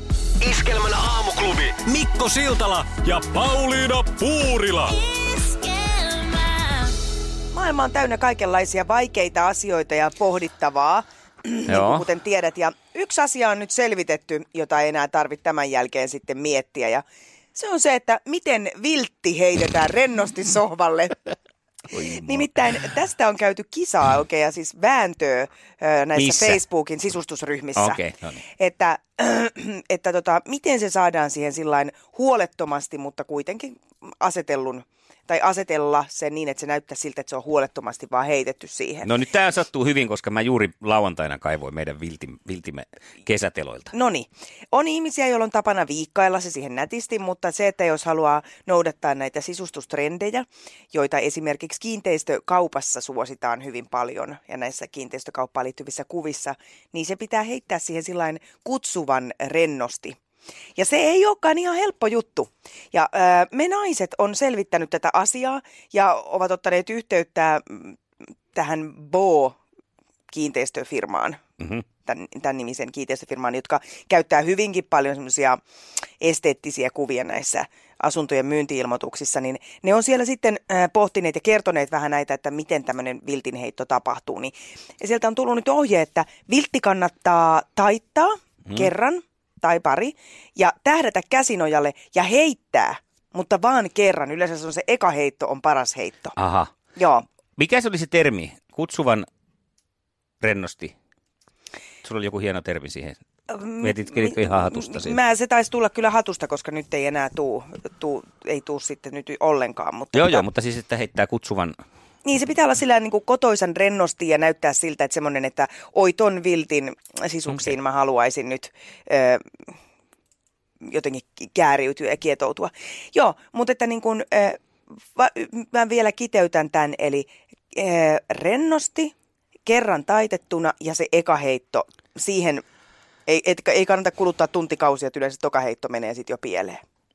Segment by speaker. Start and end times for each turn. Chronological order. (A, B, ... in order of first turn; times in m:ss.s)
0:00.4-0:05.5 A
0:07.5-0:17.0 B
0:11.7-0:12.1 C
0:17.6-0:21.3 B
0:21.9-0:22.5 C
0:22.2-0:28.0 B
0:26.2-0:26.6 C
0:27.8-0:28.4 C
0:28.6-0:39.1 B
0:39.0-0:43.9 C
0:43.9-1:00.2 B
1:00.8-1:08.0 B
1:08.5-1:09.6 B
1:10.3-1:11.4 B
1:12.0-1:15.6 B
1:16.2-1:36.4 B
1:36.4-1:36.7 C
1:37.0-1:37.2 B
1:37.6-1:39.3 C
1:40.4-1:40.9 C
1:42.0-1:43.2 C
1:43.5-1:50.4 B
1:43.8-1:45.2 C
1:50.2-1:51.8 C
1:52.2-1:59.7 B
2:00.8-2:04.6 B
2:05.1-2:09.1 B
2:09.7-2:12.6 B
2:13.3-2:16.8 B